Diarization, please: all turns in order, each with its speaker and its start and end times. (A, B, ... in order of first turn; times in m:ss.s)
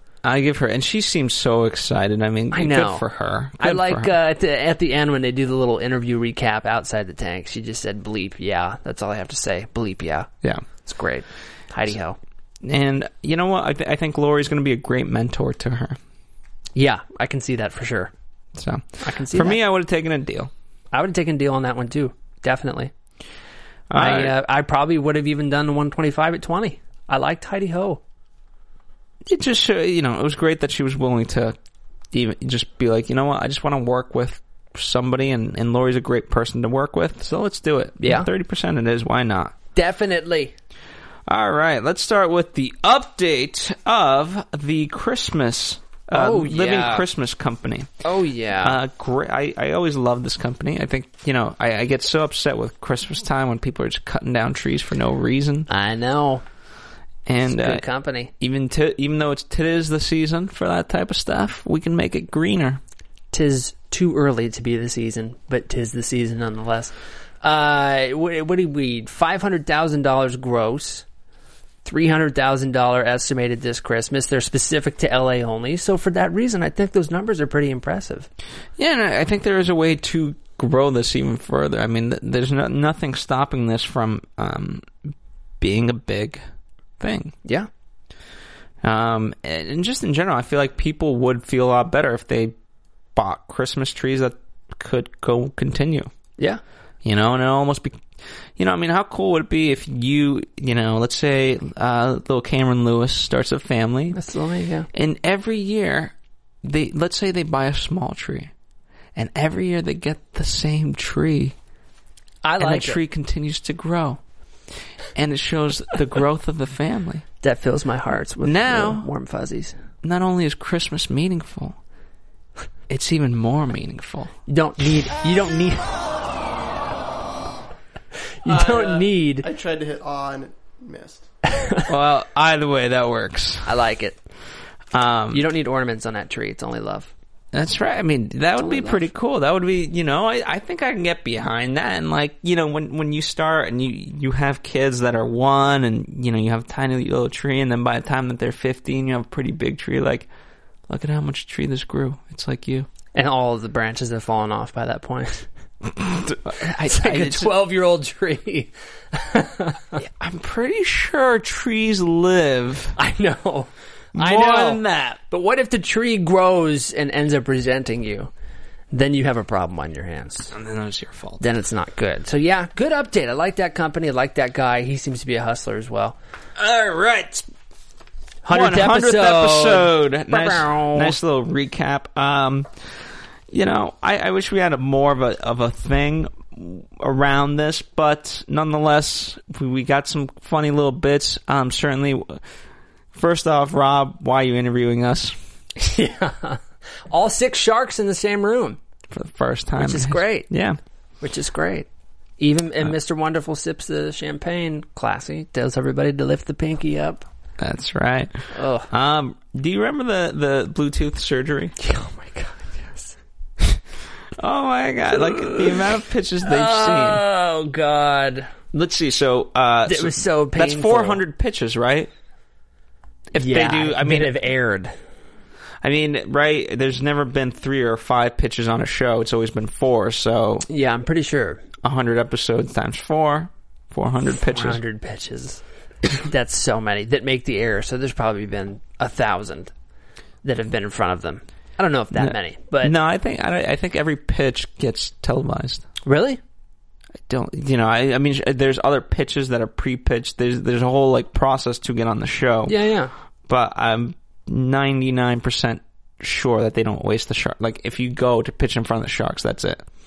0:00.2-0:04.1 A
0:02.5-0:03.0 B
0:03.6-0:10.3 B
0:10.8-0:12.2 B
0:12.6-0:16.0 A
0:16.7-0:18.1 B
0:18.6-0:20.5 A
0:19.0-0:19.6 B
0:20.9-0:22.9 B
0:23.9-0:24.3 A
0:23.9-0:28.0 B
0:29.2-0:31.6 A
0:32.1-0:39.5 A
0:38.0-0:38.3 B
0:39.7-0:40.5 B
0:41.3-0:47.9 A
0:46.1-0:47.0 B
0:48.0-0:48.8 B
0:48.6-0:55.7 A
0:55.7-0:56.4 B
0:57.2-1:02.8 A
0:57.4-0:58.3 B
1:03.3-1:11.0 B
1:11.8-1:18.3 B
1:18.8-1:26.4 A
1:27.0-1:27.3 A
1:28.8-1:32.5 A
1:33.1-1:36.1 A
1:37.0-1:38.0 A
1:38.6-1:44.2 A
1:44.1-1:44.9 B
1:44.9-1:48.5 A
1:49.1-1:51.5 A
1:52.4-1:53.0 B
1:52.6-1:54.2 A
1:55.1-1:57.2 A
1:57.4-1:59.8 B
1:58.4-1:59.1 A
2:00.0-2:01.8 A
2:02.9-2:04.3 A
2:04.5-2:06.0 B
2:08.4-2:09.5 B
2:08.4-2:11.3 C
2:11.5-2:11.8 B
2:11.9-2:13.7 A
2:13.6-2:14.2 B
2:14.9-2:15.4 A
2:15.3-2:17.1 B
2:17.5-2:30.3 A
2:18.6-2:19.0 B
2:30.9-2:32.9 A
2:33.1-2:35.5 B
2:35.8-2:37.5 A
2:36.8-2:40.0 B
2:40.0-2:43.0 A
2:43.0-2:48.3 B
2:44.1-2:45.2 A
2:48.9-2:50.5 B
2:50.5-2:51.4 A
2:51.4-2:56.2 B
2:56.6-2:57.4 A
2:58.4-3:01.2 B
2:58.5-3:02.7 A
3:03.5-3:12.4 A
3:13.1-3:15.3 A
3:15.8-3:18.8 B
3:19.1-3:20.8 A
3:19.8-3:20.5 B
3:21.2-3:21.9 B
3:22.4-3:27.2 B
3:27.6-3:31.7 A
3:28.5-3:28.9 B
3:31.8-3:33.2 B
3:34.4-3:37.2 A
3:35.3-3:35.8 B
3:36.4-3:38.5 B
3:38.7-3:42.1 A
3:39.8-3:41.2 B
3:43.3-3:44.3 A
3:43.4-3:44.9 B
3:45.8-3:50.6 A
3:50.7-3:51.6 B
3:51.8-3:54.8 A
3:54.3-3:59.7 B
4:00.4-4:02.9 B
4:02.2-4:05.9 A
4:06.0-4:06.4 B
4:07.3-4:12.8 A
4:12.7-4:13.1 B
4:13.5-4:19.8 A